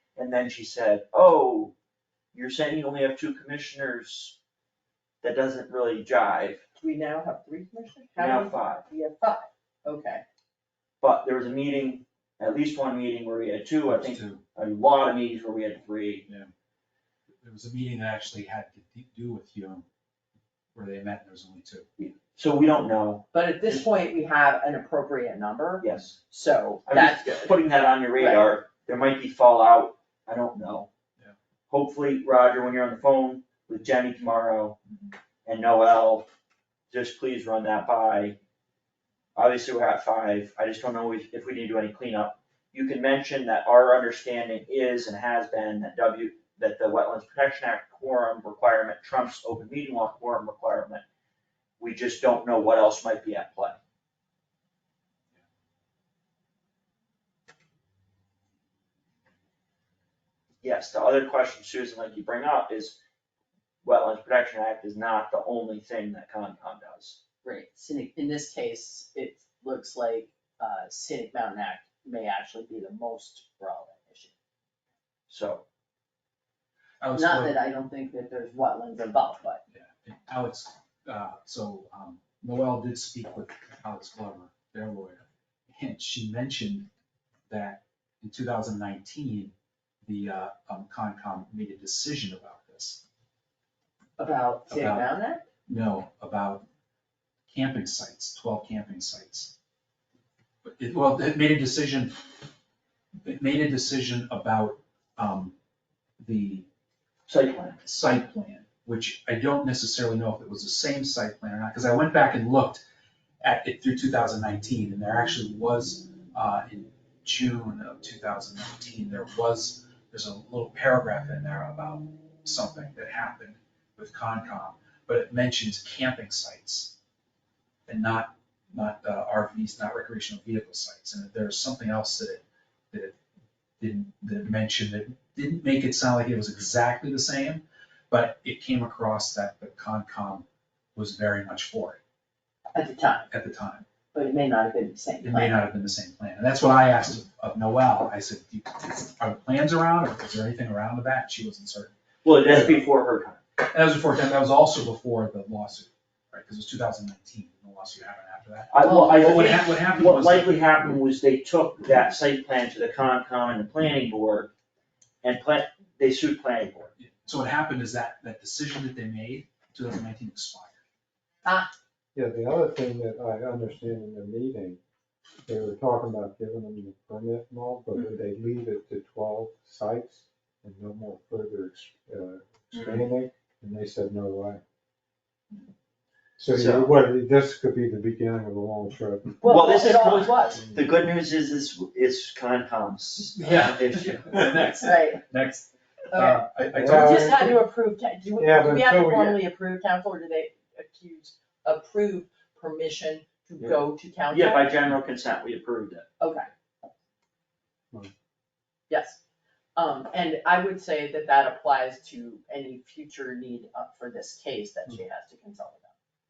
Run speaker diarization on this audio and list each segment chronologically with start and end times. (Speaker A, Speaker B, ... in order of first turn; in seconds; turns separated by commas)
Speaker A: 0.2-1.7, Speaker A: 2.3-4.4, Speaker A: 5.2-6.6, Speaker B: 6.8-10.2, Speaker A: 8.2-8.8, Speaker A: 11.0-16.3, Speaker C: 13.9-14.4, Speaker C: 17.4-19.9, Speaker C: 20.7-21.9, Speaker A: 22.0-23.8, Speaker B: 23.3-27.6, Speaker A: 25.8-26.2, Speaker A: 26.9-30.9, Speaker B: 28.1-28.5, Speaker A: 31.7-34.8, Speaker A: 35.5-36.3, Speaker A: 36.9-38.4, Speaker A: 39.3-51.0, Speaker A: 51.8-53.8, Speaker A: 60.6-63.0, Speaker A: 63.8-67.2, Speaker B: 67.4-74.3, Speaker A: 75.3-75.6, Speaker C: 77.0-77.6, Speaker B: 77.1-79.6, Speaker C: 79.7-86.9, Speaker C: 87.5-89.5, Speaker C: 90.0-93.0, Speaker B: 94.2-95.5, Speaker C: 94.7-95.1, Speaker C: 95.7-96.6, Speaker C: 97.5-99.5, Speaker C: 100.6-102.2, Speaker C: 103.2-105.5, Speaker C: 106.2-106.7, Speaker A: 107.3-107.8, Speaker C: 107.8-112.8, Speaker C: 113.4-127.0, Speaker C: 127.9-133.2, Speaker C: 133.8-140.4, Speaker C: 141.0-142.0, Speaker B: 142.8-143.3, Speaker C: 143.3-143.9, Speaker B: 144.1-145.5, Speaker C: 145.2-151.9, Speaker A: 152.2-153.4, Speaker C: 153.6-160.6, Speaker A: 158.7-164.5, Speaker B: 158.8-159.5, Speaker A: 165.2-166.9, Speaker C: 167.0-170.8, Speaker B: 171.4-171.7, Speaker D: 172.1-174.8, Speaker D: 175.5-184.6, Speaker D: 186.4-189.4, Speaker A: 186.5-186.9, Speaker B: 189.4-190.6, Speaker A: 189.4-194.4, Speaker D: 190.5-190.8, Speaker C: 193.3-197.5, Speaker B: 194.8-195.2, Speaker B: 196.1-204.7, Speaker D: 196.8-197.6, Speaker D: 198.4-199.4, Speaker A: 203.6-206.1, Speaker B: 206.2-206.5, Speaker B: 208.9-209.2, Speaker B: 209.8-215.9